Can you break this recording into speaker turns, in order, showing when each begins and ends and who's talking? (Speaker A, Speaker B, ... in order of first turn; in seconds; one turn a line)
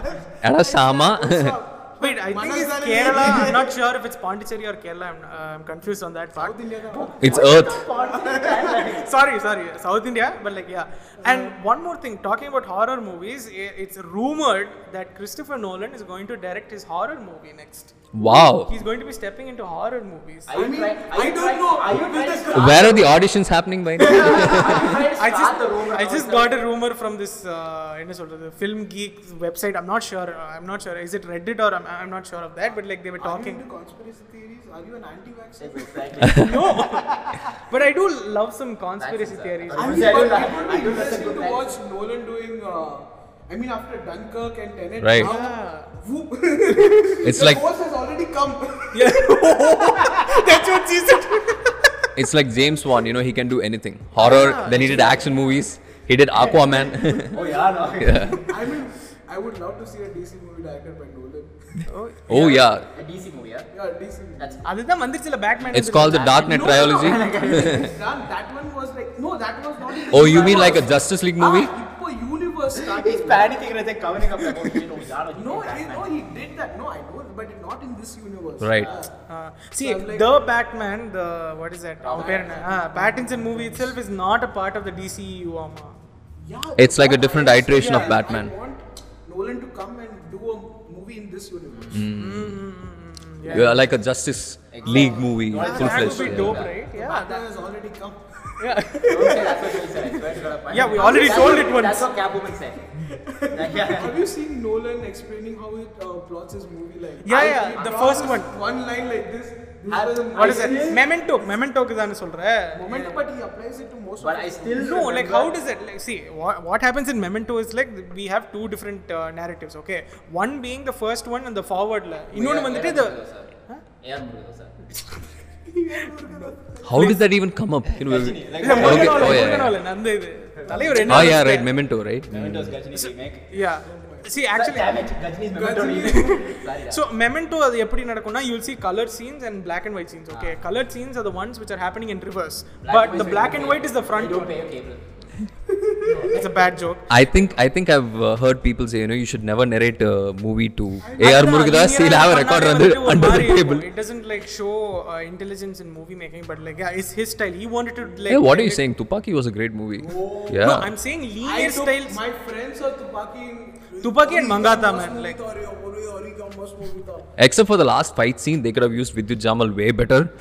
Speaker A: 0.4-1.6
Speaker B: 0.5-3.8
Speaker C: 2.0-6.6
Speaker B: 6.4-8.9
Speaker D: 6.9-9.1
Speaker A: 7.2-7.8
Speaker C: 8.8-20.5
Speaker B: 11.2-11.6
Speaker A: 18.1-18.7
Speaker D: 20.5-23.2
Speaker B: 20.5-23.0
Speaker A: 22.5-25.0
Speaker D: 24.0-26.7
Speaker C: 25.2-33.6
Speaker B: 33.2-37.4
Speaker D: 35.6-36.6
Speaker A: 36.3-36.6
Speaker C: 36.4-40.5
Speaker D: 39.0-41.7
Speaker B: 39.8-50.3
Speaker A: 45.0-45.3
Speaker C: 45.2-45.9
Speaker A: 47.2-47.7
Speaker C: 48.9-51.7
Speaker A: 52.1-57.4
Speaker C: 54.2-55.4
Speaker D: 54.2-55.2
Speaker D: 56.4-58.5
Speaker B: 57.3-57.7
Speaker A: 58.0-58.4
Speaker B: 58.4-62.6
Speaker C: 61.9-62.6
Speaker A: 62.3-62.9
Speaker D: 62.3-63.7
Speaker B: 63.7-64.7
Speaker D: 64.4-64.7
Speaker C: 64.7-66.8
Speaker D: 65.6-67.9
Speaker A: 65.7-67.9
Speaker B: 66.5-73.7
Speaker A: 70.1-71.7
Speaker D: 70.1-70.9
Speaker D: 72.8-76.2
Speaker B: 75.3-79.1
Speaker A: 78.6-78.9
Speaker D: 78.8-79.1
Speaker C: 79.3-86.0
Speaker B: 79.8-80.3
Speaker D: 82.0-82.7
Speaker B: 82.1-84.0
Speaker B: 86.4-92.1
Speaker A: 86.8-88.5
Speaker C: 87.7-88.2
Speaker D: 91.7-92.1
Speaker A: 91.9-92.6
Speaker C: 92.2-93.8
Speaker D: 93.5-93.7
Speaker A: 93.5-96.7
Speaker D: 94.7-96.7
Speaker B: 94.9-95.2
Speaker C: 95.6-97.5
Speaker B: 95.9-100.1
Speaker C: 98.6-99.5
Speaker D: 99.0-102.9
Speaker C: 100.7-102.1
Speaker B: 100.8-101.8
Speaker B: 103.2-111.1
Speaker D: 103.5-104.2
Speaker C: 107.2-108.5
Speaker D: 107.3-108.3
Speaker D: 109.9-111.0
Speaker C: 110.3-113.2
Speaker B: 112.7-115.1
Speaker D: 114.2-115.5
Speaker C: 114.8-123.2
Speaker D: 122.3-124.8
Speaker B: 125.7-127.2
Speaker C: 126.4-127.2
Speaker A: 126.8-129.8
Speaker D: 127.9-129.6
Speaker C: 128.6-131.7
Speaker B: 128.8-129.5
Speaker B: 130.7-131.4
Speaker A: 131.1-132.8
Speaker D: 132.3-133.6
Speaker C: 133.0-135.1
Speaker B: 133.8-134.3
Speaker D: 134.4-137.1
Speaker B: 135.6-136.6
Speaker C: 136.1-144.6
Speaker D: 140.3-140.6
Speaker D: 142.8-145.3
Speaker B: 145.7-146.4
Speaker C: 146.2-147.1
Speaker A: 147.1-153.9
Speaker B: 151.0-151.5
Speaker C: 151.2-158.8
Speaker A: 158.3-160.9
Speaker B: 159.9-167.3
Speaker C: 160.6-162.2
Speaker C: 164.0-165.4
Speaker A: 167.4-170.3